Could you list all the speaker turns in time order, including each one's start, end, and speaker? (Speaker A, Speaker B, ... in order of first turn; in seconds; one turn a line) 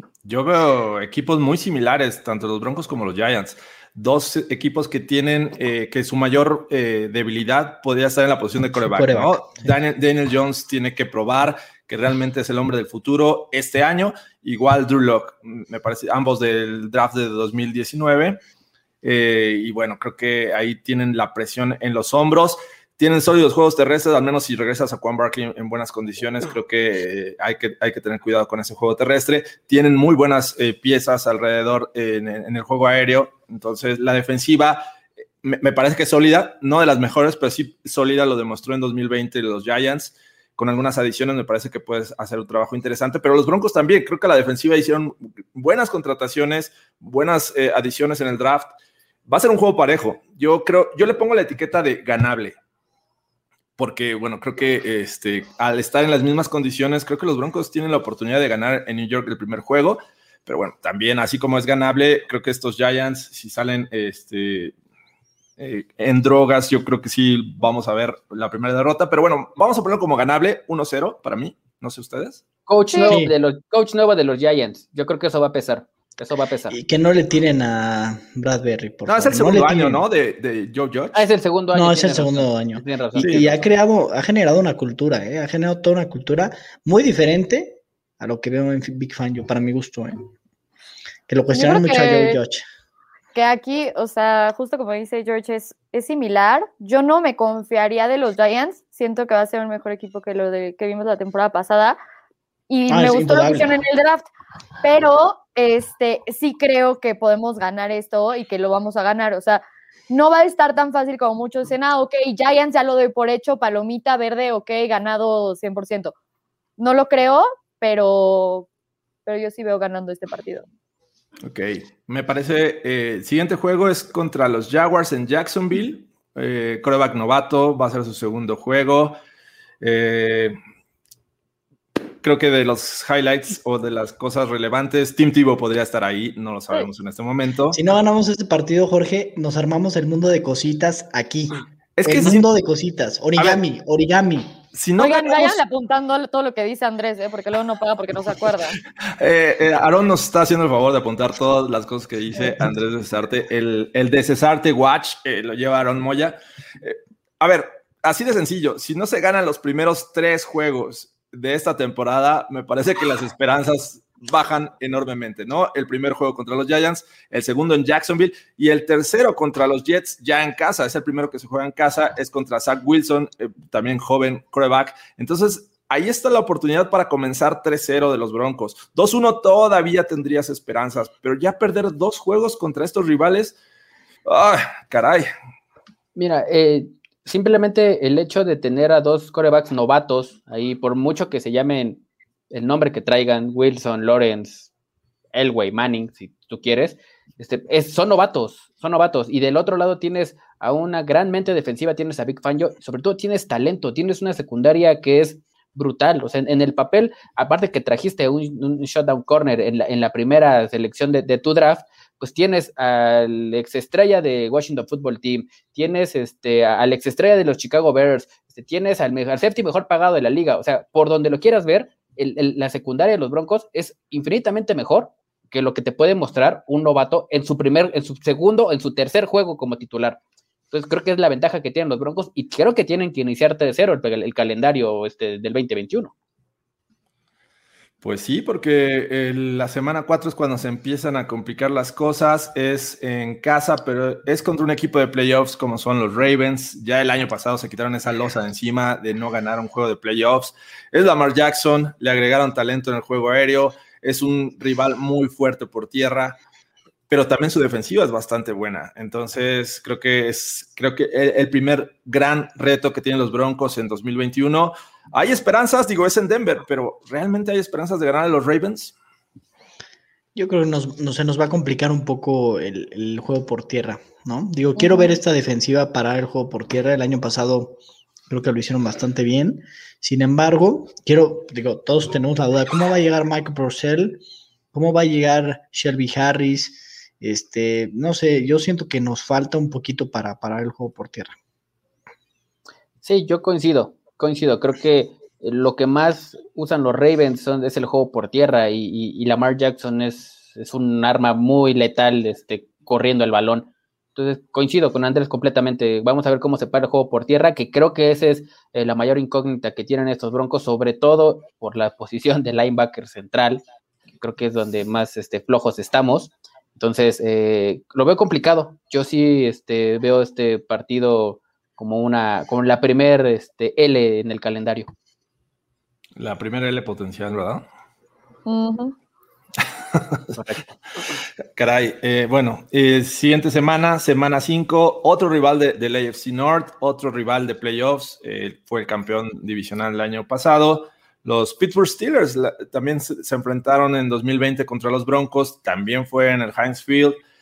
Speaker A: 0.2-18.4
Speaker B: 8.7-9.7
Speaker A: 19.0-34.8
Speaker A: 35.4-48.7
Speaker A: 49.2-52.6
Speaker A: 53.8-64.7
Speaker A: 65.6-72.4
Speaker C: 72.7-76.8
Speaker D: 72.9-73.2
Speaker B: 73.0-73.3
Speaker B: 76.7-80.0
Speaker A: 79.1-81.3
Speaker C: 81.1-83.6
Speaker B: 81.7-90.3
Speaker A: 83.2-83.6
Speaker B: 91.3-92.7
Speaker D: 91.5-92.4
Speaker D: 93.3-102.0
Speaker D: 102.7-104.3
Speaker B: 102.9-103.8
Speaker D: 104.8-116.1
Speaker D: 116.8-118.7
Speaker D: 119.2-120.7
Speaker A: 121.4-129.2
Speaker A: 129.8-130.6
Speaker A: 132.2-137.9
Speaker B: 137.7-144.6
Speaker A: 142.0-142.5
Speaker A: 144.7-145.6
Speaker D: 145.0-148.8
Speaker A: 149.2-183.6
Speaker A: 184.2-185.3
Speaker C: 186.1-194.7
Speaker C: 195.3-230.2
Speaker C: 230.7-236.1
Speaker A: 238.0-256.4
Speaker A: 257.1-268.9
Speaker B: 270.3-277.8
Speaker D: 274.8-275.2
Speaker B: 278.3-284.2
Speaker B: 284.7-291.3
Speaker C: 293.0-313.6
Speaker C: 314.2-324.9
Speaker A: 326.1-327.6
Speaker D: 328.4-328.9
Speaker A: 330.0-330.4
Speaker C: 330.3-330.6
Speaker A: 331.6-347.2